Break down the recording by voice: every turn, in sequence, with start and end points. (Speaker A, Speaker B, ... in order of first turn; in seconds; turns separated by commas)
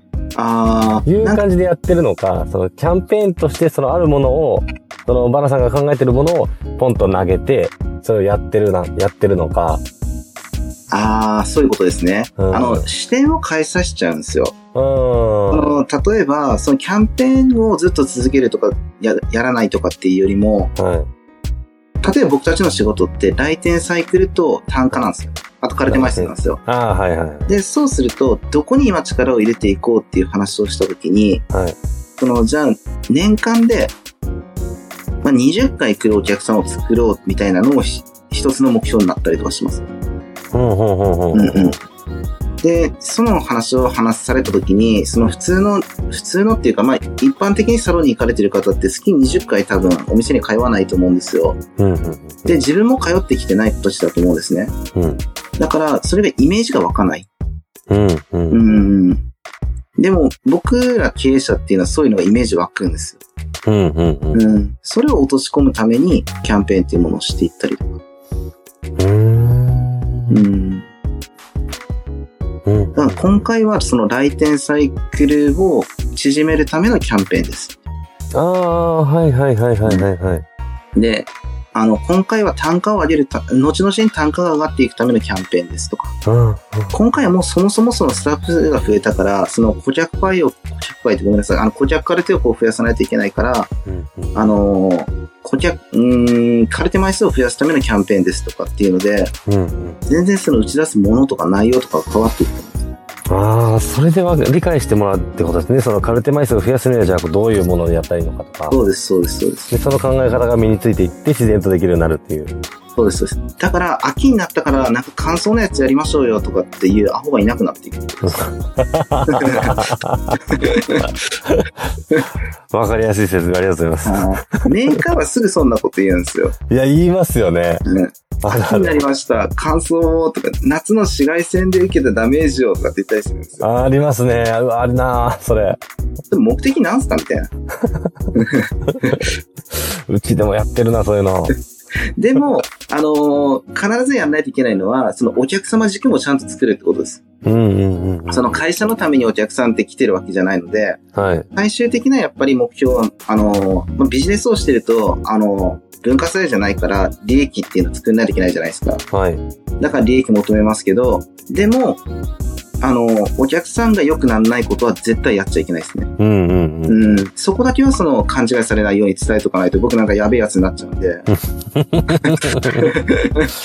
Speaker A: 0.4-1.4, Speaker B: 1.1-9.8, Speaker A: 10.9-14.6, Speaker B: 12.4-12.9, Speaker B: 14.7-15.8, Speaker A: 15.5-20.7, Speaker B: 20.8-21.1, Speaker A: 22.0-26.6, Speaker B: 25.9-27.5, Speaker A: 27.5-31.4, Speaker B: 31.5-31.8, Speaker A: 32.2-33.9, Speaker A: 35.2-39.9, Speaker B: 40.5-41.8, Speaker A: 41.3-41.8, Speaker A: 42.6-51.6, Speaker B: 51.8-52.6, Speaker A: 52.5-54.8, Speaker B: 55.0-55.2, Speaker A: 55.6-57.3, Speaker B: 57.9-58.8, Speaker A: 58.5-59.2, Speaker A: 60.0-63.2, Speaker B: 63.7-64.5, Speaker A: 64.3-68.0, Speaker B: 69.0-70.4, Speaker A: 70.3-70.9, Speaker B: 72.7-73.5, Speaker A: 73.0-77.8, Speaker B: 78.3-80.5, Speaker A: 81.0-86.2, Speaker B: 86.2-87.0, Speaker A: 86.9-93.7, Speaker B: 93.9-94.4, Speaker A: 94.3-99.3, Speaker B: 99.5-100.0, Speaker A: 100.1-102.9, Speaker B: 103.3-108.8, Speaker A: 108.7-109.8, Speaker B: 109.7-112.6, Speaker A: 113.0-118.5, Speaker B: 118.2-120.4, Speaker A: 119.3-119.9, Speaker A: 120.5-121.1, Speaker B: 122.7-124.7, Speaker A: 124.0-126.5, Speaker B: 126.7-127.8, Speaker A: 127.8-133.7, Speaker B: 128.4-129.0, Speaker B: 133.6-135.8, Speaker A: 136.3-137.5, Speaker B: 137.8-138.1, Speaker A: 138.3-139.3, Speaker B: 139.7-141.6, Speaker A: 142.2-147.2, Speaker B: 147.4-148.6, Speaker A: 148.3-151.0, Speaker B: 151.2-151.5, Speaker A: 151.6-159.0, Speaker B: 159.1-159.4, Speaker A: 159.8-162.0, Speaker A: 162.8-166.1, Speaker B: 166.2-167.2, Speaker A: 166.9-171.3, Speaker B: 171.7-173.0, Speaker A: 172.1-173.5